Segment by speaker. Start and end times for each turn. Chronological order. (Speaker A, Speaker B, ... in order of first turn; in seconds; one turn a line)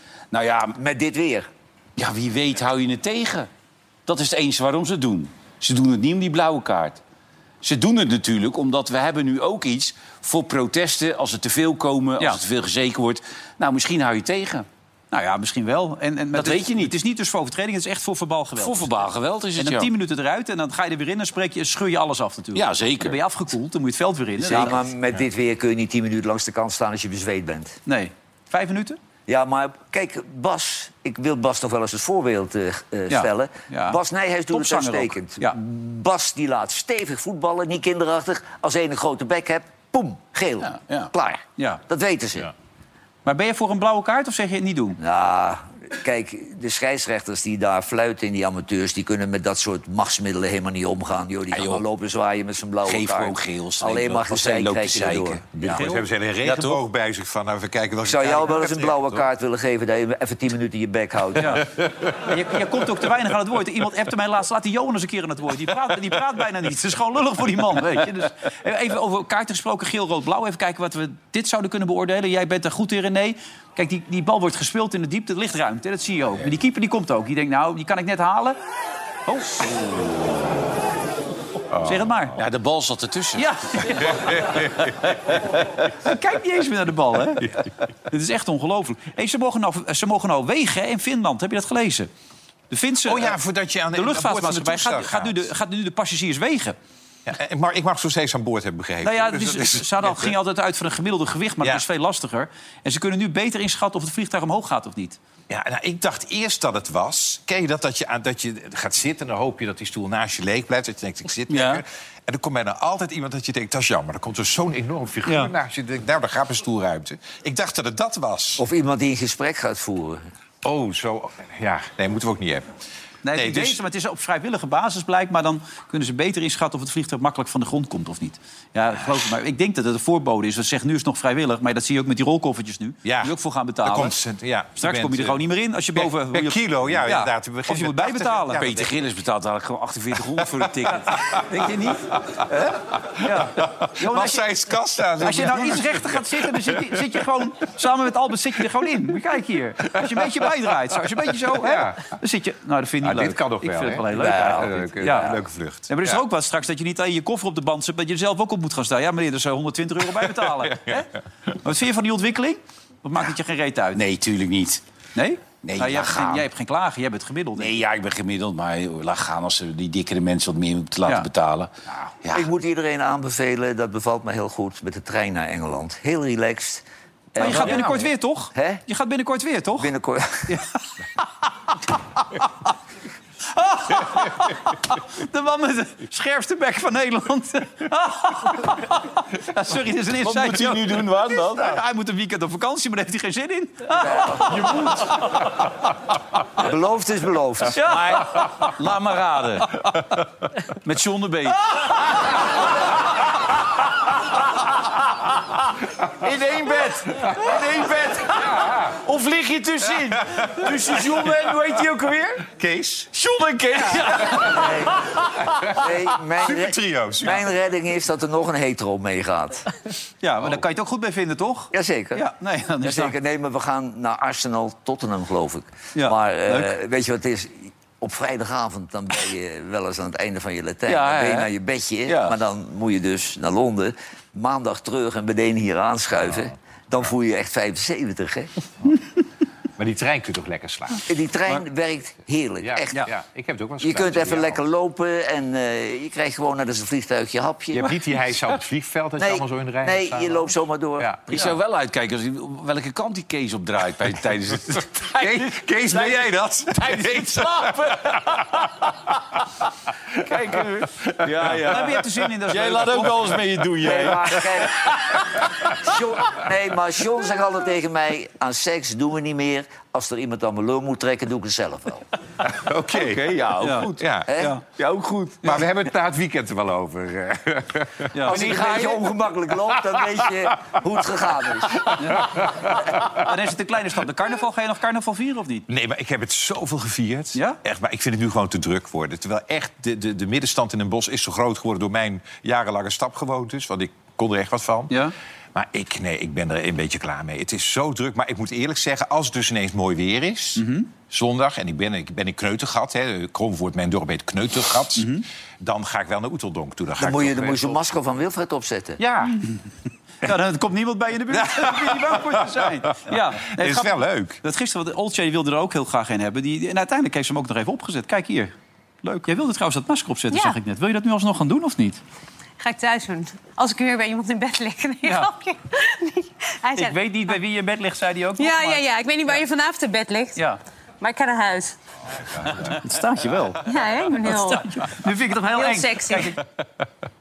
Speaker A: 0.3-0.8
Speaker B: 0.8-1.5
Speaker A: 2.0-3.5
Speaker A: 4.1-7.0
Speaker A: 7.6-14.7
Speaker C: 15.1-24.9
Speaker A: 16.3-16.9
Speaker A: 18.6-19.9
Speaker A: 22.6-23.2
Speaker B: 24.4-27.8
Speaker C: 27.9-29.0
Speaker B: 29.3-42.5
Speaker C: 33.1-34.0
Speaker C: 34.5-35.6
Speaker A: 40.7-41.1
Speaker C: 43.2-45.0
Speaker B: 45.0-55.4
Speaker A: 51.5-51.8
Speaker A: 52.9-55.9
Speaker D: 55.5-59.3
Speaker C: 55.6-56.0
Speaker A: 56.4-56.8
Speaker B: 58.0-61.7
Speaker C: 61.4-61.7
Speaker C: 62.2-78.6
Speaker C: 79.3-79.6
Speaker D: 81.7-82.3
Speaker C: 81.8-82.4
Speaker A: 82.4-83.5
Speaker C: 83.4-92.1
Speaker D: 84.1-84.9
Speaker C: 92.7-93.4
Speaker D: 93.0-95.5
Speaker C: 94.0-96.8
Speaker D: 97.3-100.3
Speaker C: 99.0-105.2
Speaker D: 105.5-118.6
Speaker A: 111.5-111.8
Speaker C: 115.3-115.5
Speaker B: 118.6-120.2
Speaker D: 120.6-122.7
Speaker C: 123.2-134.2
Speaker D: 123.3-123.8
Speaker D: 133.0-135.4
Speaker C: 134.8-138.6
Speaker D: 135.9-138.9
Speaker A: 138.6-141.2
Speaker C: 141.4-142.2
Speaker D: 142.2-142.5
Speaker D: 143.0-146.9
Speaker C: 143.2-144.5
Speaker C: 145.2-155.4
Speaker D: 150.0-150.5
Speaker D: 151.4-152.2
Speaker D: 153.0-156.2
Speaker B: 154.1-155.3
Speaker C: 155.9-164.0
Speaker D: 160.7-161.0
Speaker A: 163.9-164.8
Speaker C: 165.2-167.8
Speaker A: 165.6-166.5
Speaker A: 167.6-172.5
Speaker B: 172.3-178.8
Speaker C: 177.4-179.9
Speaker B: 179.8-180.6
Speaker C: 180.5-180.8
Speaker C: 183.5-195.5
Speaker A: 190.2-191.7
Speaker B: 193.9-194.7
Speaker B: 196.6-197.8
Speaker C: 197.7-198.7
Speaker A: 197.9-199.8
Speaker A: 200.8-202.2
Speaker A: 206.2-212.5
Speaker D: 210.3-210.8
Speaker D: 212.5-213.1
Speaker A: 213.1-214.6
Speaker B: 214.4-219.7
Speaker D: 215.8-217.4
Speaker C: 220.2-223.2
Speaker B: 221.7-222.2
Speaker B: 222.8-238.5
Speaker C: 225.9-226.7
Speaker A: 230.9-231.5
Speaker A: 232.1-232.4
Speaker D: 239.8-241.1
Speaker B: 241.1-243.1
Speaker D: 242.6-244.6
Speaker B: 243.8-248.0
Speaker D: 247.7-250.5
Speaker B: 249.2-251.4
Speaker A: 251.3-258.8
Speaker D: 255.2-258.6
Speaker A: 260.2-264.9
Speaker D: 261.2-261.6
Speaker C: 261.7-263.4
Speaker B: 263.8-265.2
Speaker D: 265.4-265.7
Speaker B: 265.8-272.1
Speaker D: 272.4-273.4
Speaker A: 272.9-274.0
Speaker C: 273.6-274.6
Speaker D: 274.0-274.4
Speaker B: 274.3-274.6
Speaker A: 274.7-275.6
Speaker D: 275.4-279.1
Speaker C: 278.1-278.4
Speaker B: 278.2-282.0
Speaker D: 279.6-280.3
Speaker D: 281.8-283.2
Speaker C: 282.0-282.3
Speaker C: 283.1-285.7
Speaker D: 285.7-294.9
Speaker D: 295.6-307.8
Speaker C: 300.6-300.9
Speaker C: 305.0-305.2
Speaker B: 307.0-309.0
Speaker D: 309.0-309.4
Speaker C: 310.2-322.0
Speaker D: 311.4-312.5
Speaker D: 313.1-314.4
Speaker E: 320.3-320.6
Speaker E: 322.6-327.4
Speaker C: 325.0-325.3
Speaker C: 326.7-328.8
Speaker E: 328.4-330.5
Speaker E: 331.0-331.8
Speaker C: 332.4-336.4
Speaker E: 333.6-336.4